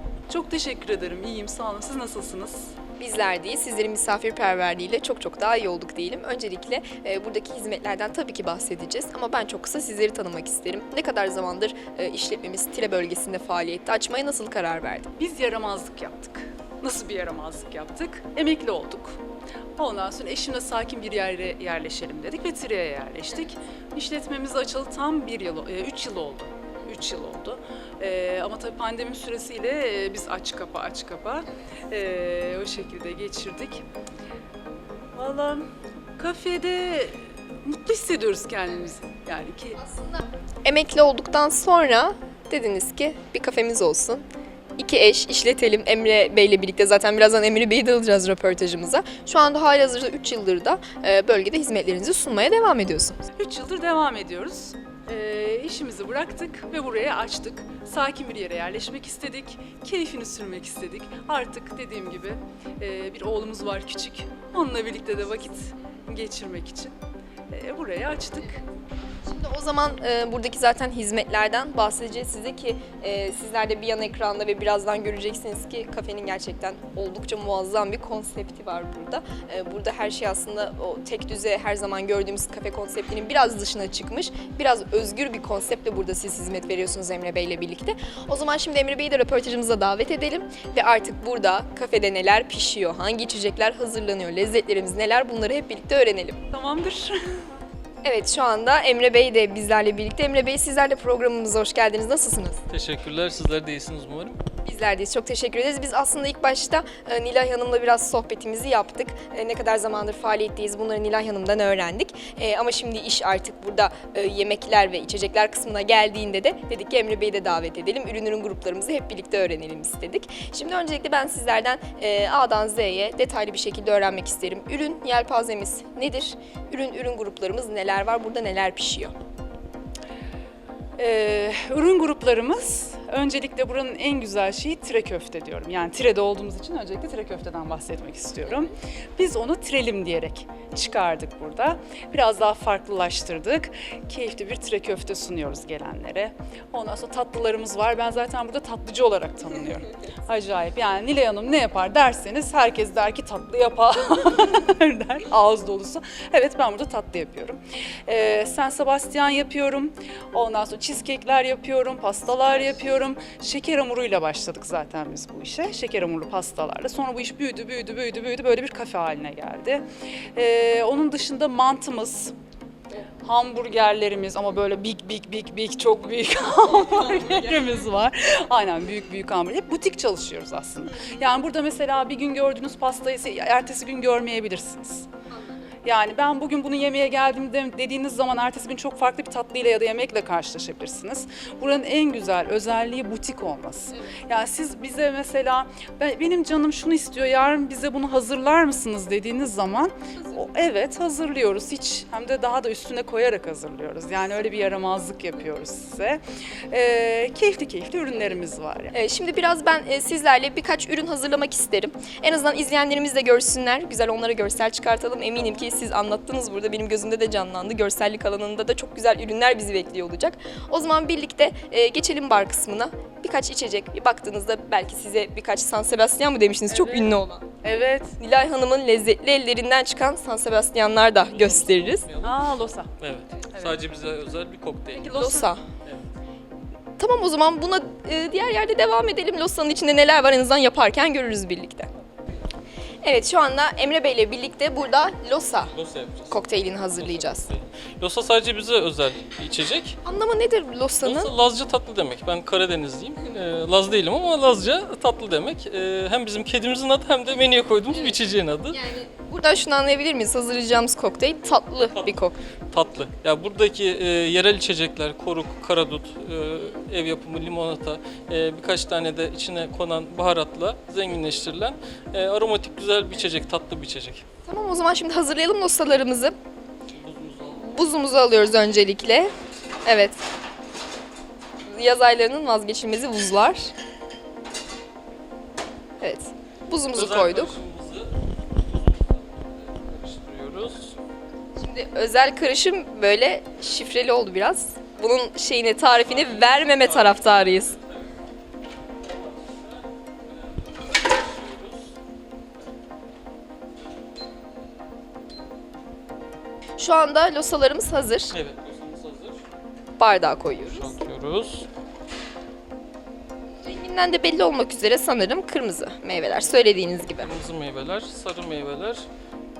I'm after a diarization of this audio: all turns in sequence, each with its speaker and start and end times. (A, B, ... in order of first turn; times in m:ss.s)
0:00.3-0:02.7 A
0:03.0-0:15.1 B
0:15.2-0:19.2 A
0:19.8-0:33.8 A
0:35.1-0:35.7 A
0:36.2-0:39.8 A
0:39.8-0:44.2 B
0:44.8-0:53.3 B
0:53.4-1:06.9 A
1:07.5-1:08.6 A
1:09.2-1:36.4 B
1:36.5-1:37.4 A
1:38.0-1:42.6 B
1:42.7-1:44.4 C
1:44.6-2:09.1 B
2:11.0-2:49.8 A
2:50.4-2:52.3 A
2:53.2-3:05.1 A
3:05.3-3:05.7 B
3:05.8-3:28.9 A
3:28.9-3:47.5 B
3:46.7-3:48.2 A
3:48.2-3:52.1 B
3:51.1-3:55.2 C
3:52.2-3:52.9 A
3:53.5-3:53.8 A
3:54.9-3:55.5 A
3:55.2-3:55.6 B
3:55.8-3:56.1 C
3:57.0-4:01.9 B
4:03.0-4:05.7 B
4:05.7-4:10.0 C
4:06.3-4:07.5 B
4:10.0-4:11.3 B
4:11.0-4:18.8 C
4:18.7-4:22.4 B
4:21.8-4:22.2 C
4:22.7-4:34.2 C
4:34.4-4:36.3 B
4:36.9-4:37.8 C
4:37.6-4:40.2 B
4:41.7-4:43.7 B
4:46.0-4:47.5 B
4:46.9-4:51.0 C
4:51.6-4:57.7 B
4:56.0-4:58.1 C
4:59.0-5:01.9 C
5:06.8-5:08.4 B
5:08.3-5:09.4 C
5:10.0-5:11.0 B
5:10.7-5:11.7 C
5:13.6-5:17.3 B
5:17.0-5:19.1 C